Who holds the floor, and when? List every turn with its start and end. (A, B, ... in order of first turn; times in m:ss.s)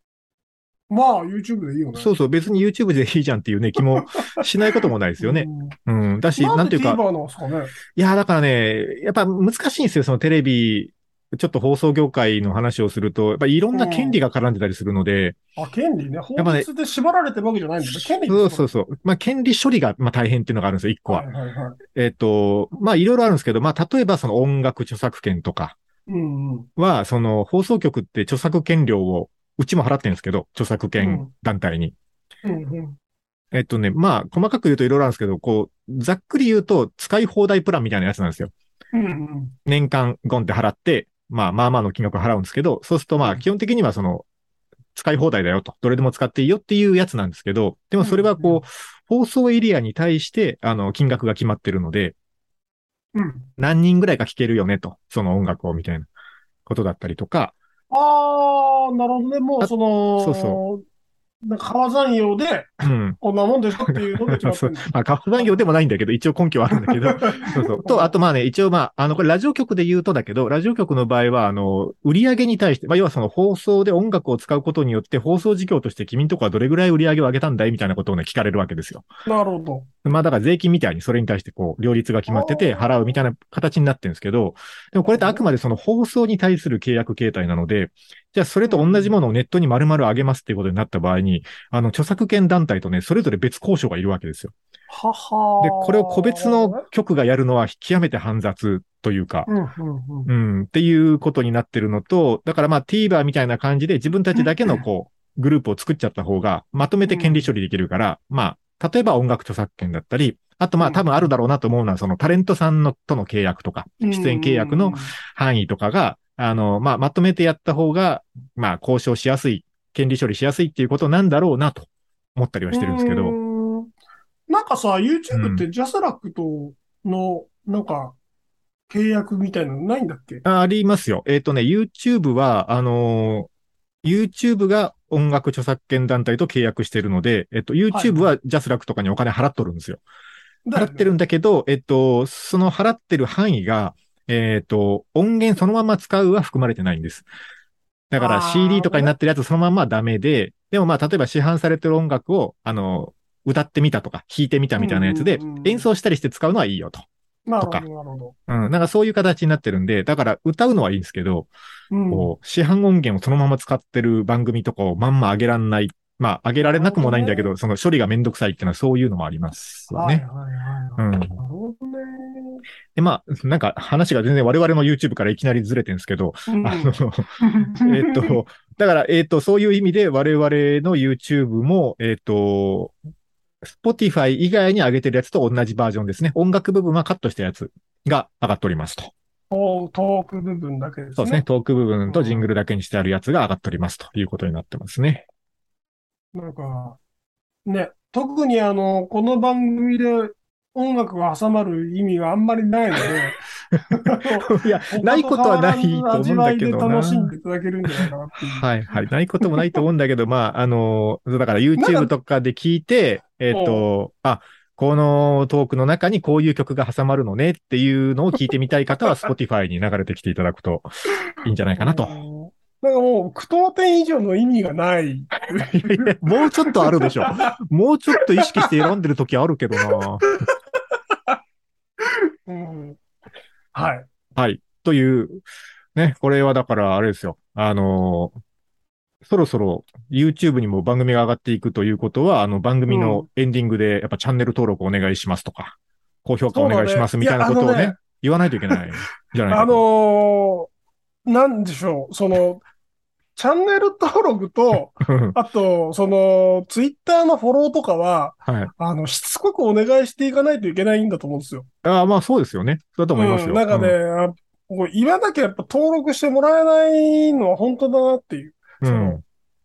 0:00.9-0:02.1 A
0:02.0-0:07.0 B
0:05.2-0:05.7 A
0:06.3-0:07.7 A
0:07.9-0:15.4 B
0:13.7-0:14.2 A
0:15.6-0:18.7 A
0:16.4-0:16.7 B
0:17.8-0:21.2 B
0:21.1-0:21.8 A
0:21.9-0:25.8 B
0:26.1-0:26.7 A
0:26.8-0:31.9 B
0:31.0-0:31.3 A
0:32.4-0:33.0 A
0:33.5-0:38.5 B
0:38.9-0:39.5 A
0:39.6-0:44.2 B
0:44.9-0:52.1 B
0:48.0-0:48.6 A
0:53.1-0:53.5 A
0:53.6-0:56.1 B
0:56.6-0:57.5 B
0:57.9-1:00.8 A
0:59.6-1:00.6 B
1:01.4-1:05.6 A
1:02.8-1:03.2 B
1:03.9-1:19.0 B
1:06.8-1:08.1 A
1:19.2-1:19.9 A
1:20.0-1:34.5 B
1:22.3-1:23.2 A
1:25.1-1:25.4 A
1:28.6-1:29.1 A
1:34.9-1:36.8 A
1:35.6-1:39.5 B
1:39.5-1:40.3 A
1:40.3-2:03.4 B
1:44.4-1:44.8 A
1:47.0-1:47.4 A
1:50.8-1:51.3 A
1:54.0-1:55.1 A
2:02.7-2:03.9 A
2:04.5-2:08.2 A
2:05.3-2:05.6 B
2:08.9-2:10.4 A
2:10.4-2:13.5 B
2:14.0-2:20.0 B
2:17.9-2:18.3 A
2:20.7-2:21.1 A
2:20.7-2:27.2 B
2:28.1-2:37.0 B
2:28.2-2:29.1 A
2:34.8-2:35.8 A
2:37.5-2:38.3 A
2:38.5-2:41.5 B
2:41.9-2:42.3 A
2:42.1-2:50.2 B
2:46.6-2:47.5 A
2:49.9-2:52.6 A
2:51.0-2:51.3 B
2:53.0-3:02.9 B
2:56.5-2:58.4 A
3:03.6-3:09.1 B
3:09.5-3:11.4 A
3:11.2-3:15.2 B
3:12.1-3:12.4 A
3:16.3-3:17.0 A
3:17.6-3:28.6 A
3:24.5-3:27.3 B
3:28.0-3:42.2 B
3:29.4-3:29.8 A
3:31.8-3:32.1 A
3:33.5-3:33.8 A
3:41.8-3:47.5 A
3:45.5-3:50.3 B
3:48.2-3:48.7 A
3:50.0-3:50.5 A
3:52.0-3:53.0 A
3:53.7-3:54.1 A
3:54.4-3:55.4 B
3:56.0-3:58.3 B
3:59.2-4:09.8 B
4:02.9-4:03.2 A
4:06.5-4:08.0 A
4:09.5-4:10.7 A
4:11.2-4:12.6 A
4:13.4-4:21.7 A
4:15.0-4:15.4 B
4:18.4-4:18.7 B
4:21.8-4:24.0 B
4:23.1-4:29.2 A
4:28.8-4:29.2 B